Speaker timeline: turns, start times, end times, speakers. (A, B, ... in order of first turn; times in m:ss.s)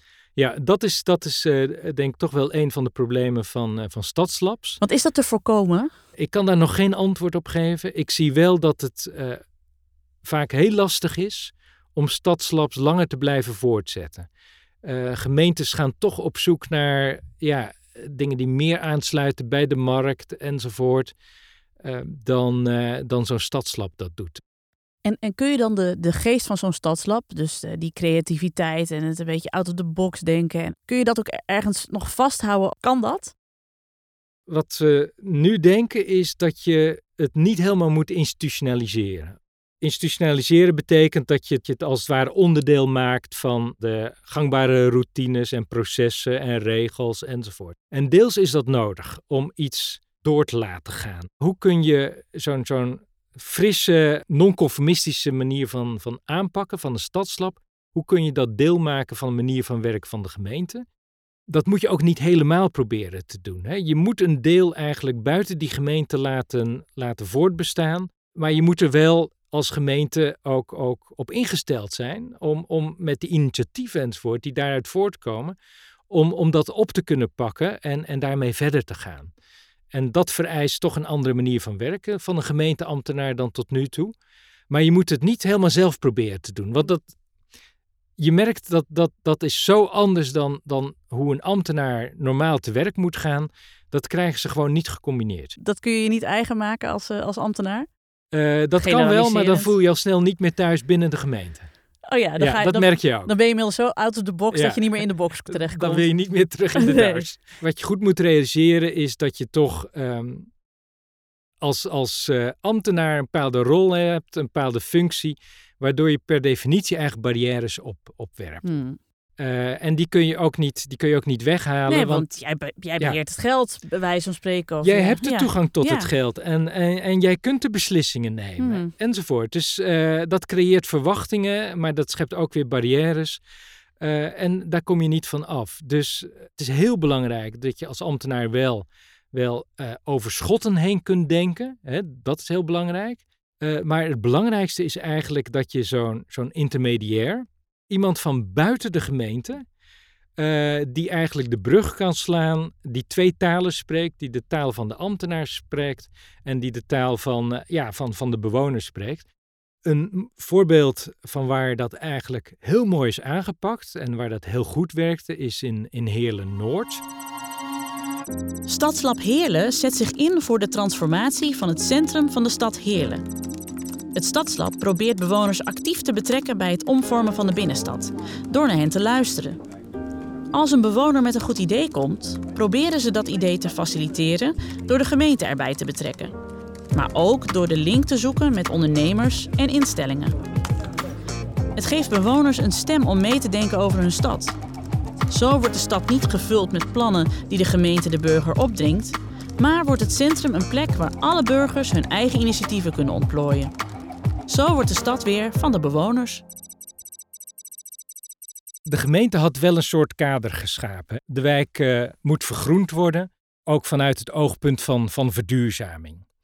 0:00.4-0:04.8 A
0:04.8-0:05.9 B
0:06.2-0:09.4 A
0:10.2-0:14.3 A
0:14.8-0:21.1 A
0:21.8-0:24.4 A
0:25.0-0:33.3 B
0:34.5-1:00.8 A
1:01.5-1:15.6 A
1:16.1-1:19.3 A
1:19.9-1:24.1 A
1:24.7-1:27.1 A
1:28.2-1:35.6 A
1:35.6-1:37.9 B
1:38.3-1:41.7 A
1:38.8-1:39.7 B
1:42.1-1:46.1 B
1:42.4-1:43.3 A
1:44.5-1:50.5 A
1:46.8-1:47.2 B
1:51.6-1:58.6 A
1:58.6-1:59.0 B
1:59.4-2:02.3 A
2:01.9-2:06.1 B
2:04.8-2:13.4 A
2:08.6-2:08.9 B
2:14.0-2:29.6 A
2:30.4-2:39.2 A
2:39.8-2:47.0 A
2:48.7-2:53.2 B
2:54.1-2:59.6 B
3:00.5-3:06.3 B
3:06.9-3:10.4 B
3:11.8-3:14.6 B
3:15.3-3:23.7 B
3:24.5-3:26.4 B
3:28.9-3:36.2 A